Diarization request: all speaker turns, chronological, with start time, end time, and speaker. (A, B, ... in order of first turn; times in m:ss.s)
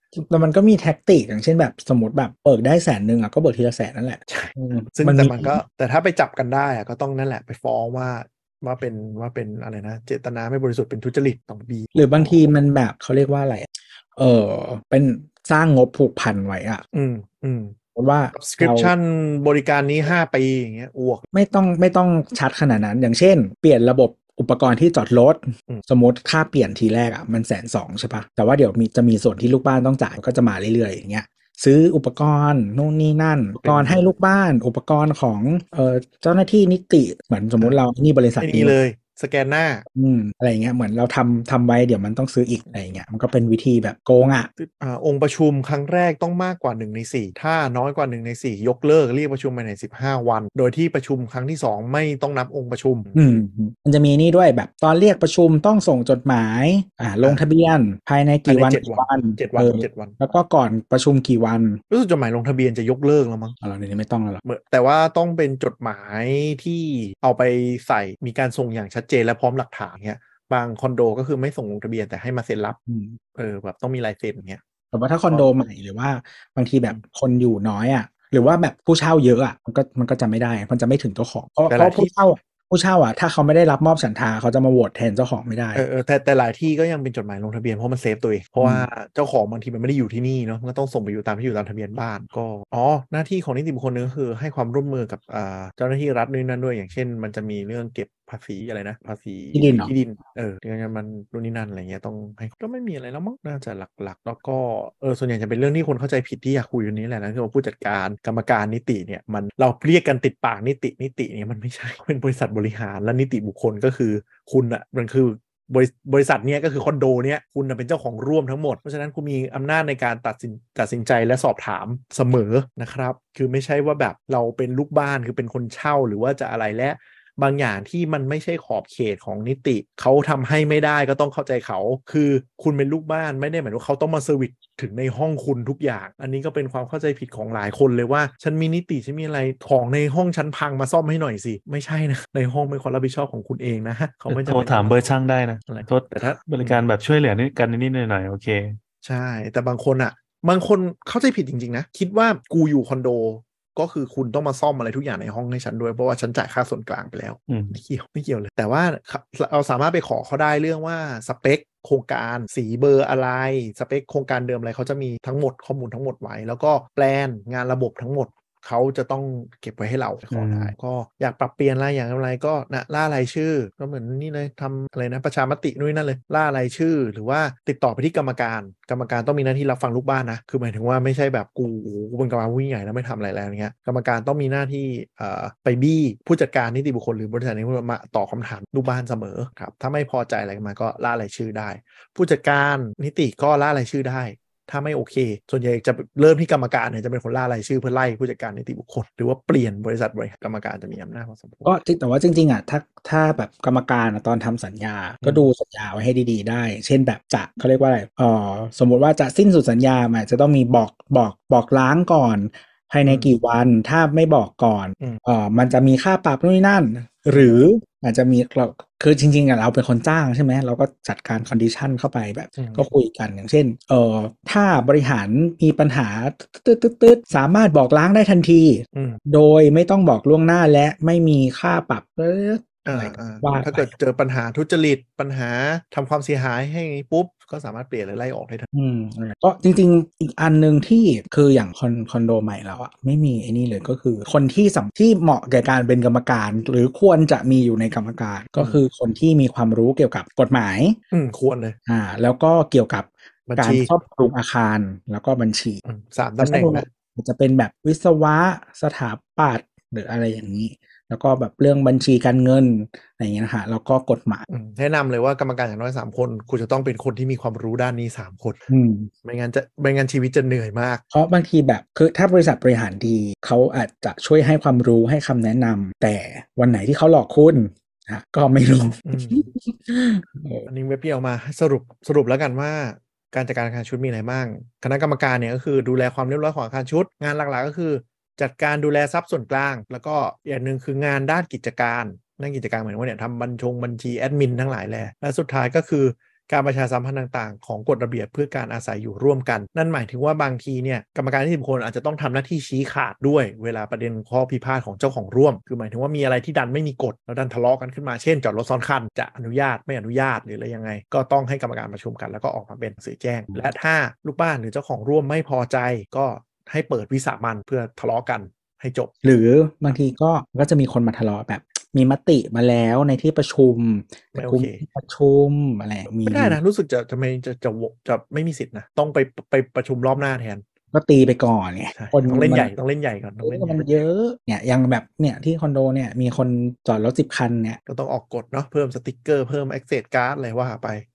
0:00.1-0:05.6 A
0:04.3-0:12.4 B
0:12.0-0:16.8 A
0:16.9-0:17.8 B
0:18.0-0:18.9 A
0:18.3-0:21.3 B
0:21.3-0:38.8 A
0:33.6-0:34.1 B
0:38.4-0:39.8 B
0:39.9-0:44.5 A
0:44.6-0:53.3 B
0:53.2-1:01.8 A
0:58.5-1:00.2 B
1:01.9-1:03.6 B
1:03.6-1:04.4 A
1:04.4-1:12.8 B
1:12.9-1:13.2 A
1:13.4-1:14.6 B
1:14.9-1:25.8 A
1:15.3-1:15.6 B
1:21.7-1:22.1 B
1:25.8-2:25.2 B
1:28.6-1:28.9 A
1:39.5-1:39.9 A
2:24.3-2:28.8 C
2:25.7-2:26.8 B
2:29.0-3:21.7 B
2:37.5-2:37.8 C
2:50.3-2:50.7 C
3:21.6-3:53.9 A
3:33.0-3:33.3 B
3:37.3-3:37.6 B
3:42.6-3:42.8 B
3:48.9-3:49.2 B
3:52.8-3:58.7 B
3:58.7-4:11.0 A
4:08.6-4:08.8 B
4:11.1-4:11.8 B
4:11.9-4:15.8 A
4:13.5-4:13.9 B
4:15.9-4:16.9 B
4:16.4-4:24.5 A
4:24.5-4:28.6 B
4:28.7-4:29.1 A
4:29.2-4:31.0 B
4:31.1-4:40.7 A
4:39.1-4:39.5 B
4:40.7-5:19.1 B
5:19.2-5:26.6 A
5:24.4-5:24.8 B
5:26.2-5:30.6 B
5:30.9-5:32.7 A
5:32.0-5:33.9 B
5:33.4-5:37.8 A
5:37.9-5:41.0 B